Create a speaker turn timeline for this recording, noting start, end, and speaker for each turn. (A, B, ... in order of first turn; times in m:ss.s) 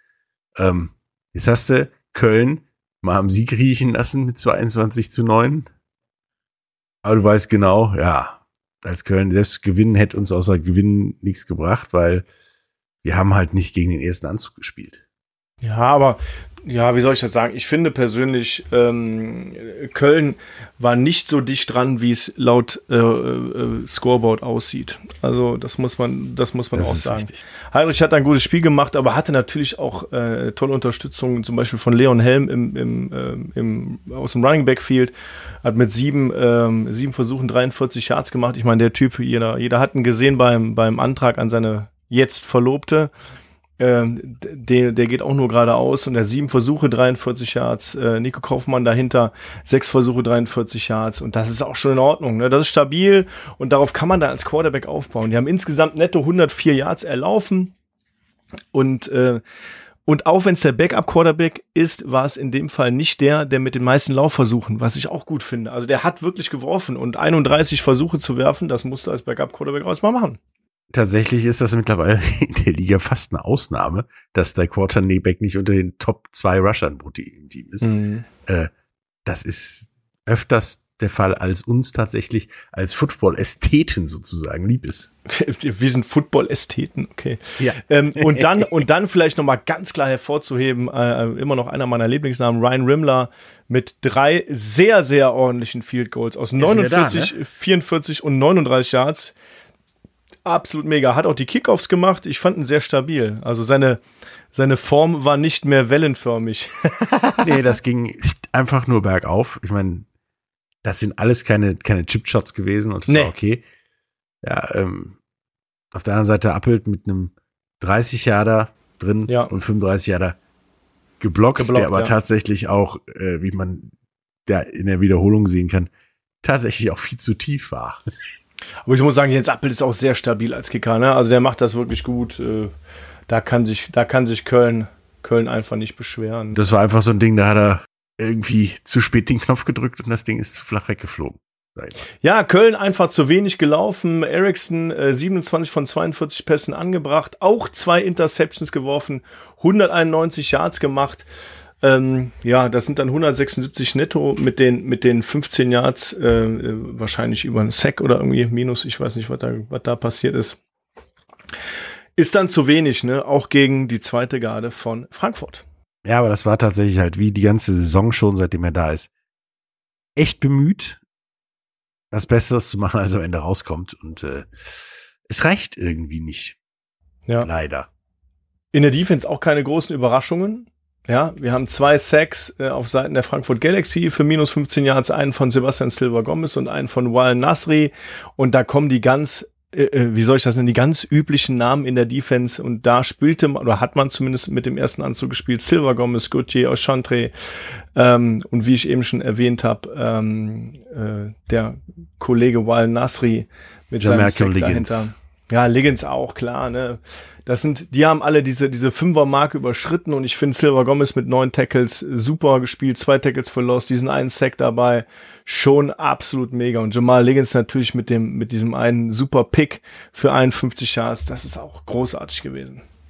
0:00.6-0:05.7 A
0:07.0-0:12.2 A
0:13.0-0:15.0 A
0:15.6-0:43.1 B
0:26.7-0:27.4 A
0:43.8-0:57.7 B
0:58.7-0:59.4 B
1:00.0-1:10.4 B
1:10.9-1:17.9 A
1:17.8-1:18.3 B
1:18.4-1:18.7 A
1:19.2-1:25.1 A
1:25.3-1:39.3 B
1:27.6-1:28.7 A
1:36.6-1:37.3 A
1:40.4-1:44.0 B
1:44.5-1:47.6 B
1:47.4-1:50.0 A
1:50.8-1:53.6 A
1:53.1-1:53.3 B
1:54.4-1:55.2 A
1:55.9-2:00.4 A
1:59.3-1:59.5 B
2:01.2-2:03.9 A
2:01.6-2:02.1 B
2:04.4-2:05.9 A
2:06.4-2:08.0 A
2:08.8-2:12.7 B
2:13.3-2:16.6 B
2:16.5-2:22.0 A
2:22.2-2:31.3 B
2:31.8-2:40.6 B
2:42.2-2:45.6 B
2:46.0-2:49.1 A
2:50.2-2:51.0 A
2:52.1-2:56.6 A
2:57.4-2:57.9 A
2:58.7-3:42.8 B
3:24.0-3:25.1 A